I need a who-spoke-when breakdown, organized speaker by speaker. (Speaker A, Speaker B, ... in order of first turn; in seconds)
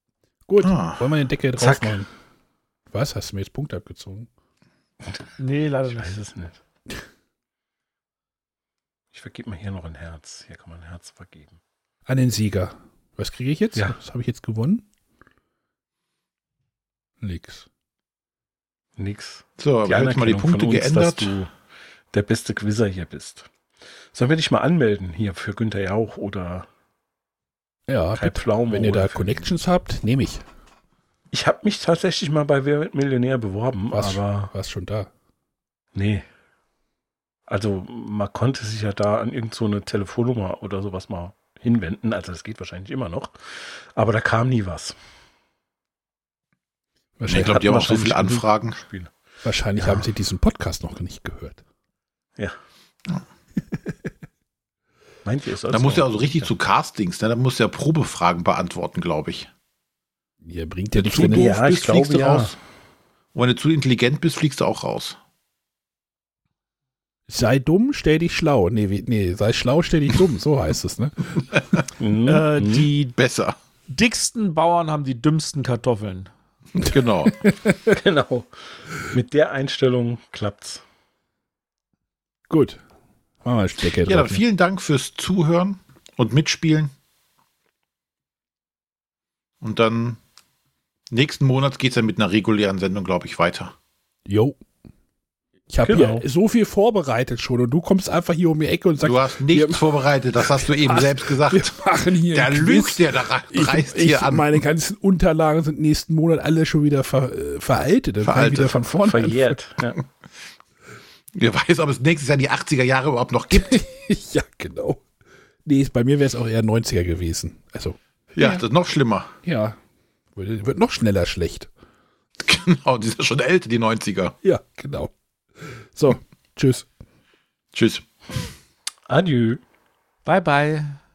Speaker A: 0.5-2.1, 2.9-4.3, 12.1-14.8, 17.2-17.6, 27.9-30.4, 33.9-35.1, 47.2-47.9, 49.4-51.6, 60.4-61.8, 67.3-71.5, 77.2-77.9, 82.5-82.8, 83.4-84.4, 94.2-94.6, 95.7-109.6, 113.5-115.0, 115.6-118.6, 119.4-119.8, 120.3-121.7, 124.4-126.9
Speaker B: 0.6-1.1, 19.6-21.3, 47.3-48.8, 49.8-50.0, 55.7-59.5, 61.0-62.5, 63.3-65.2, 73.2-73.5, 76.8-77.4, 84.0-86.9, 89.6-90.2, 91.1-93.7, 99.0-101.7, 102.3-104.6, 108.2-108.8, 111.3-113.8, 118.3-119.3, 122.4-124.3, 127.7-128.1
Speaker C: 5.4-6.2, 72.2-73.2, 73.9-76.3, 130.2-131.0
Speaker D: 6.0-6.6, 9.1-11.6, 19.0-21.5, 22.1-23.5, 24.1-26.7, 28.1-29.4, 31.3-34.5, 35.9-36.2, 37.5-44.9, 47.3-49.1, 55.2-56.5, 61.0-62.5, 72.0-72.9, 77.9-80.8, 95.8-96.2, 109.0-110.0, 129.1-129.6